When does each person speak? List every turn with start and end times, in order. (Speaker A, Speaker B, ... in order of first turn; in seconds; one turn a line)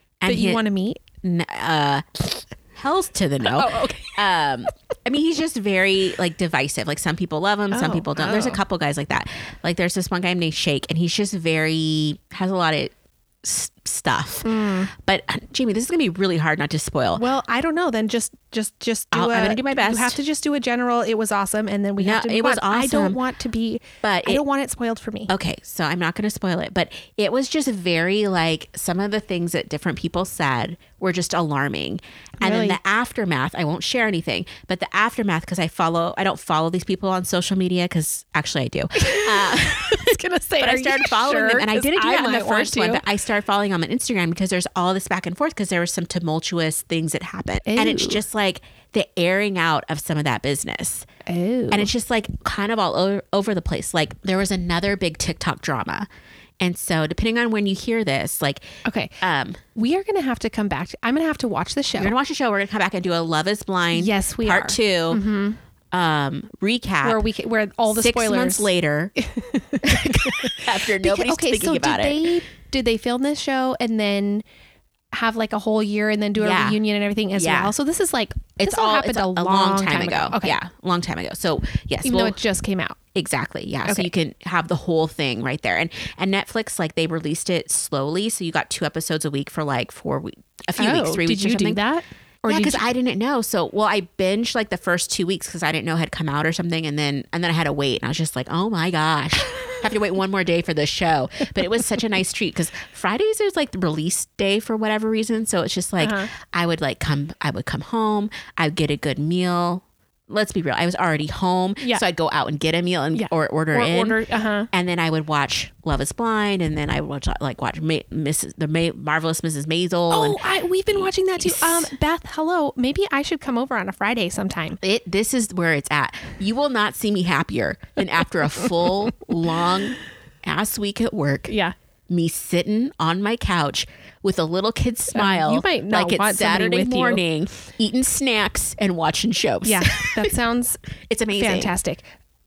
Speaker A: 0.2-0.6
Speaker B: 0.3-1.0
Speaker A: 1.2-17.2
Speaker B: 3.4-4.2
Speaker B: 7.7-8.6
Speaker B: 14.4-14.9
Speaker B: 17.1-25.3
Speaker A: 19.1-20.2
Speaker A: 22.0-23.2
Speaker A: 24.0-24.4
Speaker A: 25.3-51.1
Speaker B: 32.4-32.8
Speaker B: 39.0-43.0
Speaker B: 47.6-48.2
Speaker B: 51.2-51.9
Speaker A: 51.7-56.1
Speaker A: 56.6-59.6
Speaker B: 58.8-59.2
Speaker B: 59.7-62.1
Speaker A: 62.0-65.2
Speaker B: 63.9-65.6
Speaker A: 65.9-67.2
Speaker B: 67.0-74.4
Speaker A: 67.9-69.1
Speaker A: 69.8-72.3
Speaker B: 75.1-80.6
Speaker A: 76.4-76.8
Speaker A: 77.3-77.7
Speaker A: 78.6-82.4
Speaker B: 82.0-83.0
Speaker A: 83.1-91.8
Speaker B: 90.8-92.8
Speaker A: 92.5-114.2
Speaker B: 106.0-106.3
Speaker B: 113.1-114.7
Speaker A: 114.7-120.4
Speaker B: 120.1-124.8
Speaker A: 120.9-121.9
Speaker A: 124.8-131.5
Speaker B: 131.5-131.7
Speaker A: 132.1-140.3
Speaker B: 135.1-137.2
Speaker B: 139.6-140.8
Speaker A: 141.1-141.7
Speaker B: 141.3-142.1